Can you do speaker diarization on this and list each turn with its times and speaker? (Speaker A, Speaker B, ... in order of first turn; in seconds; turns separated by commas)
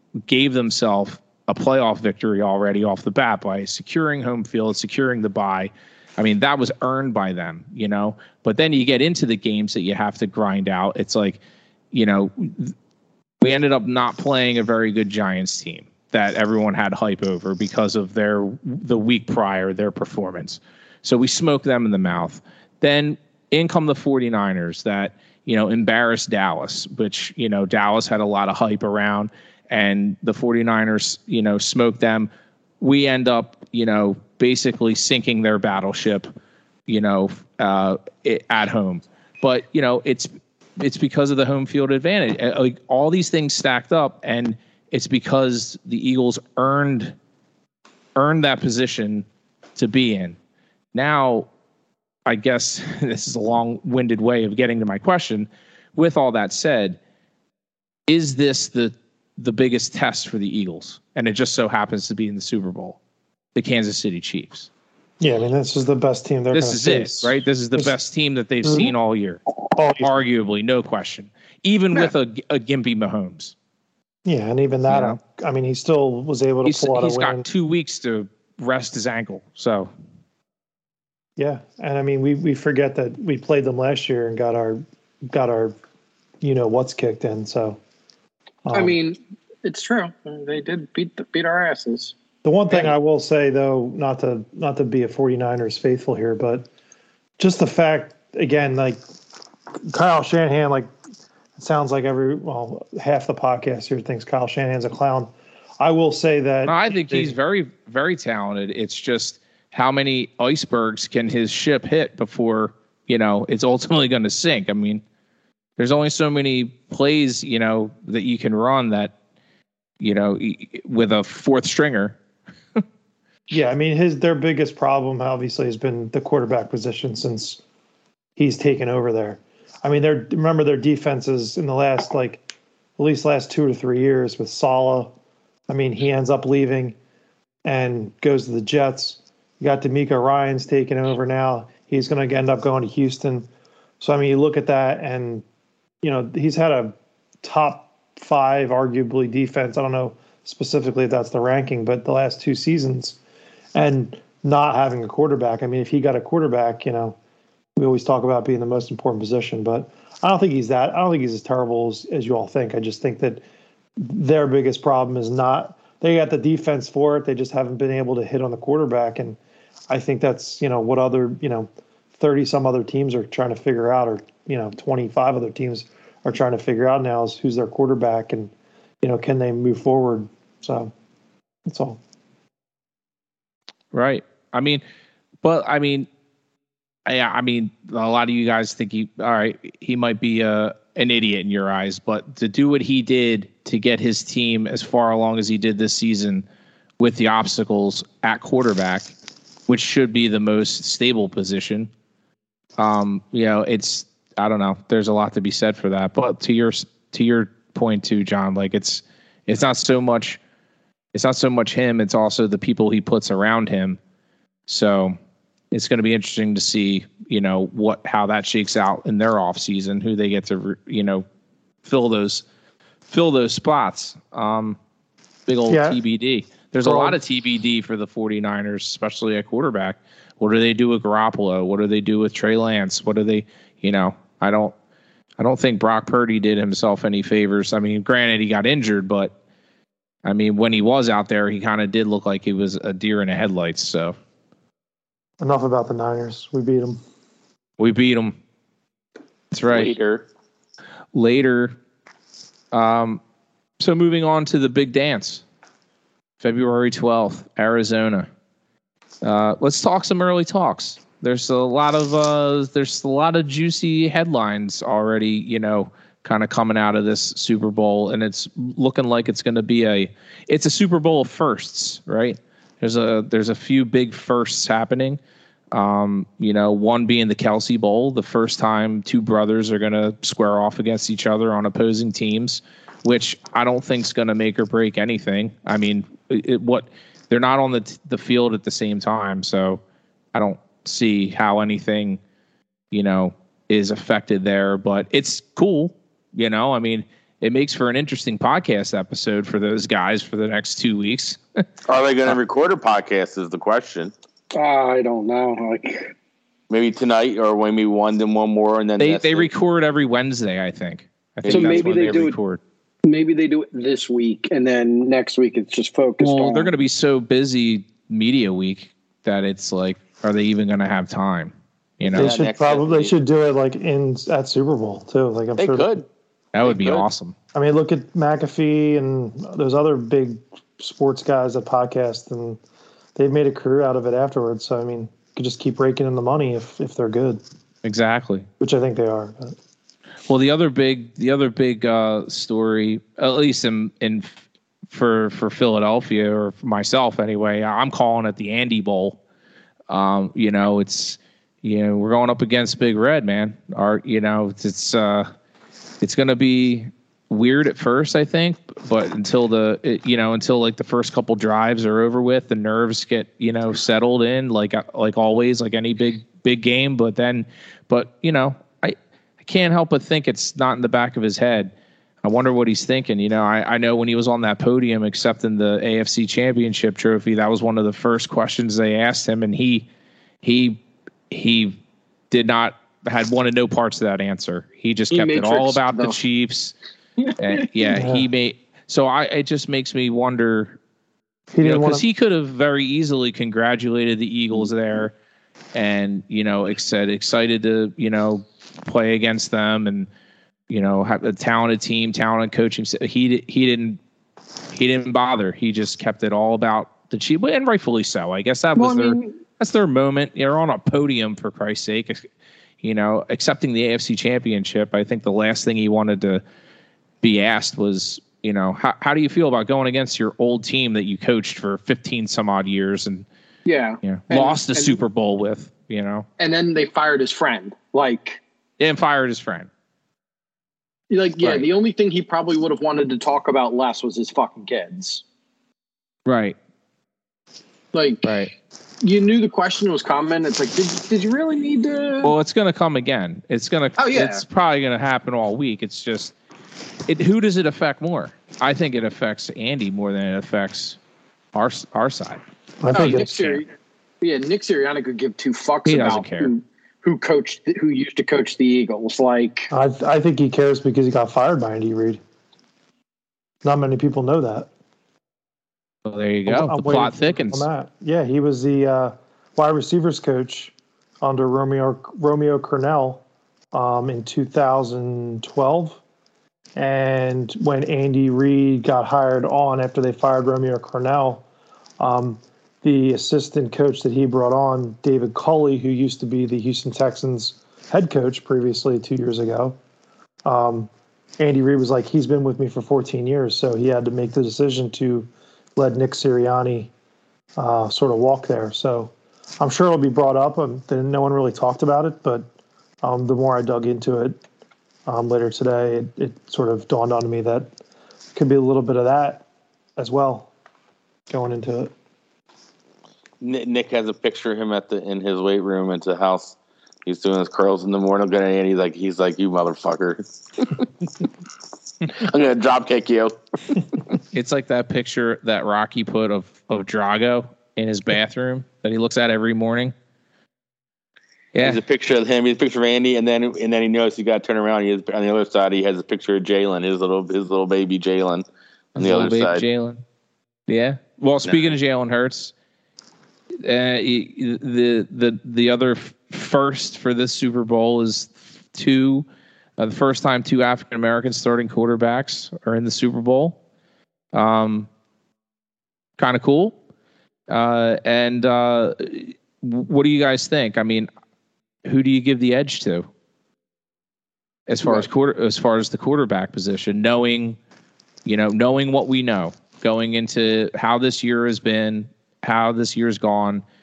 Speaker A: 0.3-11.4, Speaker A: 11.9-12.7, Speaker A: 13.4-36.3, Speaker A: 36.9-47.1, Speaker A: 48.1-50.4, Speaker A: 50.9-51.5, Speaker A: 52.2-57.0, Speaker A: 58.1-63.0, Speaker A: 63.5-64.7, Speaker B: 65.2-67.9, Speaker A: 66.5-69.4, Speaker B: 68.6-68.9, Speaker B: 69.7-70.2, Speaker A: 70.0-73.5, Speaker B: 74.2-77.4, Speaker A: 74.9-75.2, Speaker A: 76.6-79.9, Speaker B: 81.4-85.7, Speaker B: 86.4-87.8, Speaker B: 88.6-88.9, Speaker C: 88.7-92.1, Speaker B: 92.4-96.7, Speaker B: 97.4-99.0, Speaker B: 99.9-100.9, Speaker B: 101.5-107.3, Speaker A: 106.7-115.0, Speaker A: 115.8-119.1, Speaker A: 120.0-122.2, Speaker B: 123.5-127.6, Speaker B: 128.3-132.4, Speaker B: 133.0-135.1, Speaker B: 135.7-136.9, Speaker B: 137.6-143.5, Speaker B: 144.0-145.4, Speaker B: 146.0-153.2, Speaker B: 153.7-157.2, Speaker B: 157.8-163.4, Speaker B: 164.0-169.4, Speaker B: 169.9-180.9, Speaker B: 181.7-182.0, Speaker A: 183.9-184.8, Speaker A: 185.4-186.1, Speaker A: 187.1-196.4, Speaker A: 197.0-199.1, Speaker A: 199.7-201.9, Speaker A: 202.8-210.4, Speaker A: 211.1-214.0, Speaker A: 214.7-215.2, Speaker A: 215.7-221.2, Speaker A: 221.8-222.4, Speaker A: 223.1-224.8, Speaker A: 225.5-234.7, Speaker B: 225.7-226.0, Speaker B: 226.8-227.2, Speaker A: 235.4-239.3, Speaker A: 240.2-244.2, Speaker B: 245.4-247.0, Speaker A: 247.8-248.3, Speaker A: 249.5-249.9, Speaker D: 249.7-250.3, Speaker A: 251.1-251.8, Speaker A: 252.7-253.2, Speaker A: 253.8-255.4, Speaker A: 256.4-258.3, Speaker A: 259.2-275.2, Speaker A: 275.7-289.8, Speaker A: 290.3-292.2, Speaker A: 292.9-301.6, Speaker D: 301.9-304.1, Speaker C: 304.5-306.1, Speaker D: 306.7-309.5, Speaker A: 309.0-312.6, Speaker D: 311.4-312.2, Speaker C: 311.5-312.4, Speaker C: 313.0-316.7, Speaker A: 316.2-322.4, Speaker D: 322.1-323.1, Speaker B: 322.1-326.0, Speaker D: 325.6-326.1, Speaker A: 326.5-327.3, Speaker D: 326.6-327.1, Speaker B: 327.5-332.6, Speaker B: 333.1-337.4, Speaker A: 337.8-338.5, Speaker B: 338.6-339.5, Speaker A: 340.3-344.4, Speaker A: 344.9-349.2, Speaker A: 349.9-355.3, Speaker A: 356.0-371.7, Speaker A: 372.2-379.9, Speaker A: 380.4-381.8, Speaker A: 382.3-386.7, Speaker C: 385.1-386.2, Speaker C: 387.3-387.6, Speaker A: 387.4-390.8, Speaker B: 387.9-388.3, Speaker B: 391.5-392.0, Speaker A: 391.6-395.1, Speaker A: 395.7-400.1, Speaker A: 400.7-404.0, Speaker A: 404.7-412.2, Speaker C: 408.8-409.4, Speaker A: 412.8-416.4, Speaker A: 417.2-423.2, Speaker C: 423.6-425.0, Speaker A: 424.0-426.3, Speaker C: 426.4-428.4, Speaker A: 428.8-429.7, Speaker C: 431.1-435.2, Speaker A: 431.4-431.7, Speaker A: 436.2-436.6, Speaker C: 437.9-438.3, Speaker A: 438.2-438.5, Speaker C: 439.0-442.3, Speaker A: 442.2-446.3, Speaker C: 444.0-444.4, Speaker A: 447.1-451.0, Speaker A: 451.5-452.4, Speaker B: 452.8-453.2, Speaker C: 452.9-459.7, Speaker A: 452.9-453.6, Speaker A: 455.9-456.5, Speaker B: 459.7-462.2, Speaker B: 463.6-464.7, Speaker A: 466.1-467.7, Speaker B: 466.5-476.0, Speaker B: 476.8-481.4, Speaker B: 482.0-489.8, Speaker B: 490.4-496.9, Speaker B: 497.6-502.4, Speaker B: 503.0-504.4, Speaker B: 505.1-507.7, Speaker B: 508.3-509.4, Speaker B: 510.0-510.5, Speaker B: 511.3-511.9, Speaker D: 513.4-520.9, Speaker D: 522.0-524.0, Speaker A: 524.3-529.9, Speaker A: 531.5-531.8, Speaker D: 531.6-539.6, Speaker A: 539.0-540.0, Speaker A: 540.7-542.5, Speaker D: 541.5-541.7, Speaker A: 543.6-549.2, Speaker A: 549.8-553.6, Speaker A: 554.3-554.9, Speaker A: 556.2-556.8, Speaker A: 557.5-561.1, Speaker A: 561.8-563.1, Speaker A: 564.7-567.6, Speaker A: 568.2-573.6